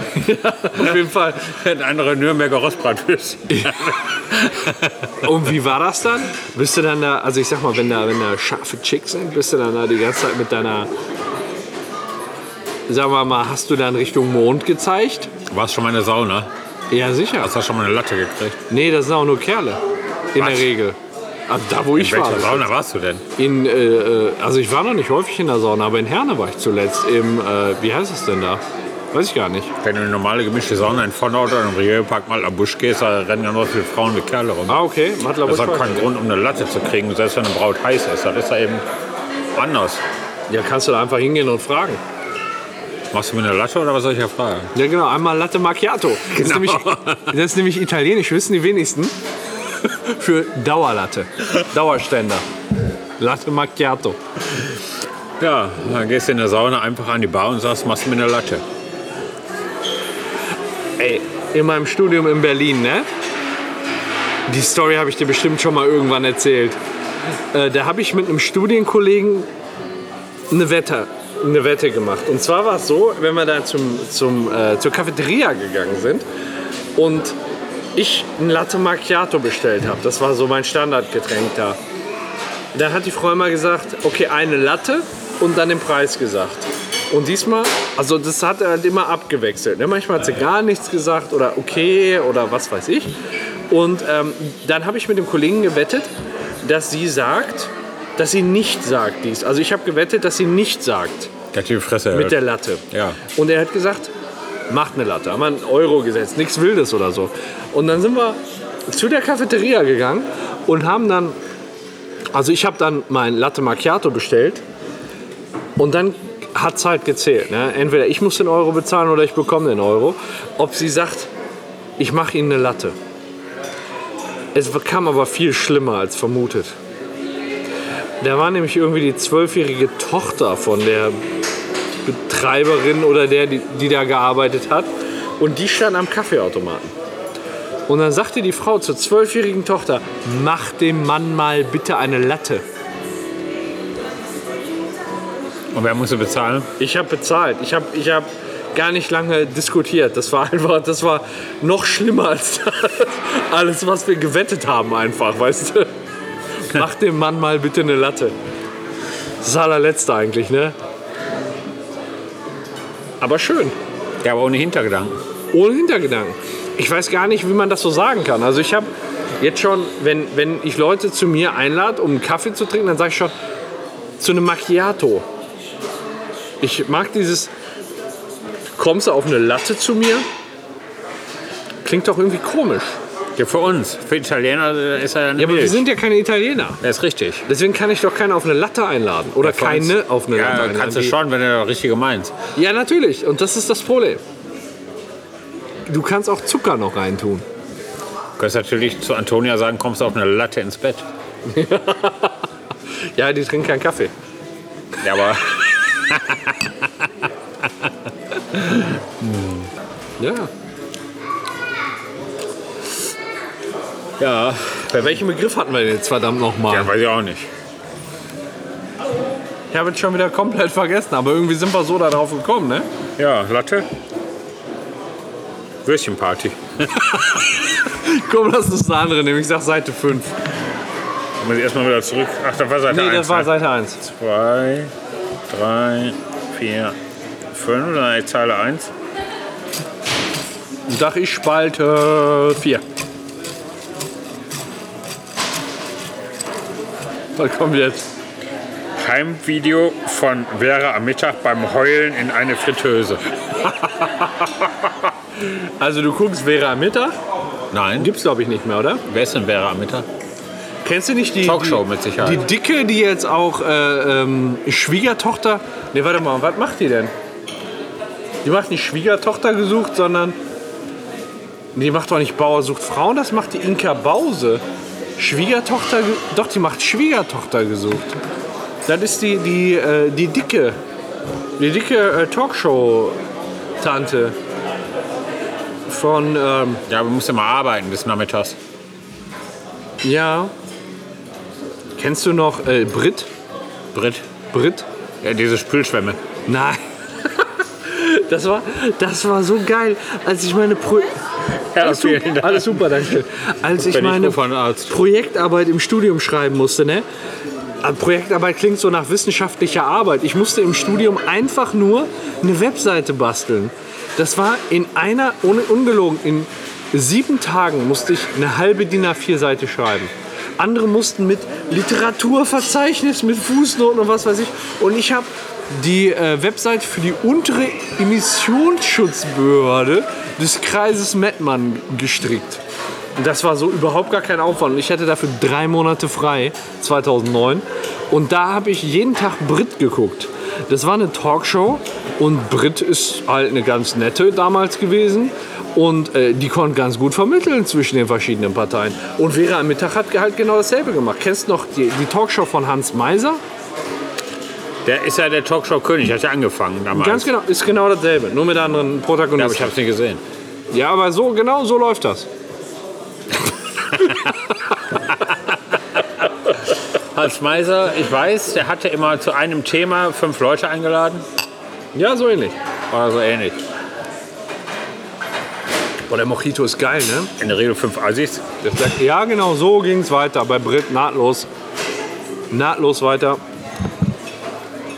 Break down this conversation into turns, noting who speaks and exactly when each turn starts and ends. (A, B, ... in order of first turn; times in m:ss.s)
0:00.2-0:01.5 A
0:00.7-0:04.9 B
0:05.2-0:10.9 A
0:12.9-0:15.3 A
0:15.5-0:16.5 B
0:16.9-0:17.5 A
0:17.4-0:18.6 B
0:18.7-0:19.8 A
0:20.3-0:22.7 A
0:20.4-0:20.7 B
0:22.0-0:23.2 B
0:23.4-0:29.7 A
0:29.8-0:34.8 B
0:34.7-0:36.1 A
0:35.4-0:38.8 B
0:39.5-0:40.0 B
0:40.5-0:42.0 A
0:43.1-0:44.7 B
0:44.7-0:49.2 A
0:46.3-0:47.4 B
0:49.8-0:52.4 A
0:53.2-0:54.2 A
0:55.4-0:58.6 B
1:01.0-1:03.1 A
1:04.5-1:06.8 A
1:07.5-1:09.5 A
1:10.5-1:16.2 A
1:17.0-1:17.4 A
1:18.0-1:21.8 A
1:22.7-1:33.1 A
1:33.7-1:36.1 A
1:36.6-1:41.3 A
1:41.5-1:43.2 B
1:42.1-1:44.1 A
1:44.7-1:51.4 A
1:52.3-1:54.6 A
1:55.8-2:01.3 A
2:02.0-2:03.0 A
2:04.6-2:06.8 A
2:08.2-2:11.2 A
2:12.0-2:16.9 A
2:17.9-2:22.6 A
2:25.7-2:26.7 B
2:26.8-2:35.9 A
2:36.6-2:38.4 A
2:39.4-2:40.8 A
2:43.2-2:43.8 A
2:44.2-2:45.2 B
2:45.5-2:48.9 A
2:49.4-2:53.3 A
2:54.2-2:55.3 A
2:56.6-2:57.5 A
2:58.8-3:00.3 A
3:01.8-3:03.0 A
3:03.4-3:05.9 B
3:05.4-3:06.8 A
3:06.8-3:07.4 B
3:07.5-3:11.2 A
3:09.4-3:12.3 B
3:12.6-3:14.2 A
3:15.9-3:17.4 A
3:18.4-3:21.0 B
3:21.5-3:22.4 A
3:23.2-3:24.1 A
3:25.0-3:27.3 B
3:28.5-3:29.7 B
3:30.2-3:30.5 A
3:34.2-3:34.9 B
3:34.9-3:36.9 A
3:36.7-3:37.5 B
3:39.7-3:42.9 A
3:43.2-3:43.9 B
3:45.8-3:47.2 B
3:47.2-3:50.4 A
3:51.4-3:54.9 B
3:52.9-3:54.0 A
3:55.5-3:57.0 B
3:57.5-3:58.9 B
4:00.9-4:02.8 A
4:07.4-4:08.1 A
4:09.0-4:13.2 B
4:15.4-4:17.2 A
4:17.7-4:18.1 B
4:18.0-4:19.0 A
4:19.1-4:20.1 B
4:20.8-4:27.1 A
4:21.4-4:22.4 B
4:28.4-4:30.4 A
4:31.8-4:34.6 A
4:35.2-4:38.2 A
4:38.9-4:40.8 A
4:41.6-4:43.2 A
4:43.8-4:44.4 A
4:45.9-4:46.8 A
4:46.9-4:48.6 B
4:50.0-4:50.5 A
4:52.0-4:53.3 A
4:53.9-4:54.2 B
4:54.5-4:54.9 A
4:55.2-4:56.2 B
4:56.5-5:01.2 A
5:01.7-5:03.2 B
5:01.8-5:07.0 A
5:03.8-5:05.0 B
5:07.8-5:32.6 A
5:33.2-5:53.4 A
5:54.8-5:57.3 B
5:56.9-5:59.8 A
5:59.4-6:00.2 B
6:00.7-6:02.3 A
6:07.0-6:11.2 B
6:11.9-6:12.6 A
6:12.9-6:13.6 B
6:16.1-6:17.3 A
6:17.4-6:18.4 B
6:18.6-6:21.5 A
6:22.5-6:23.4 A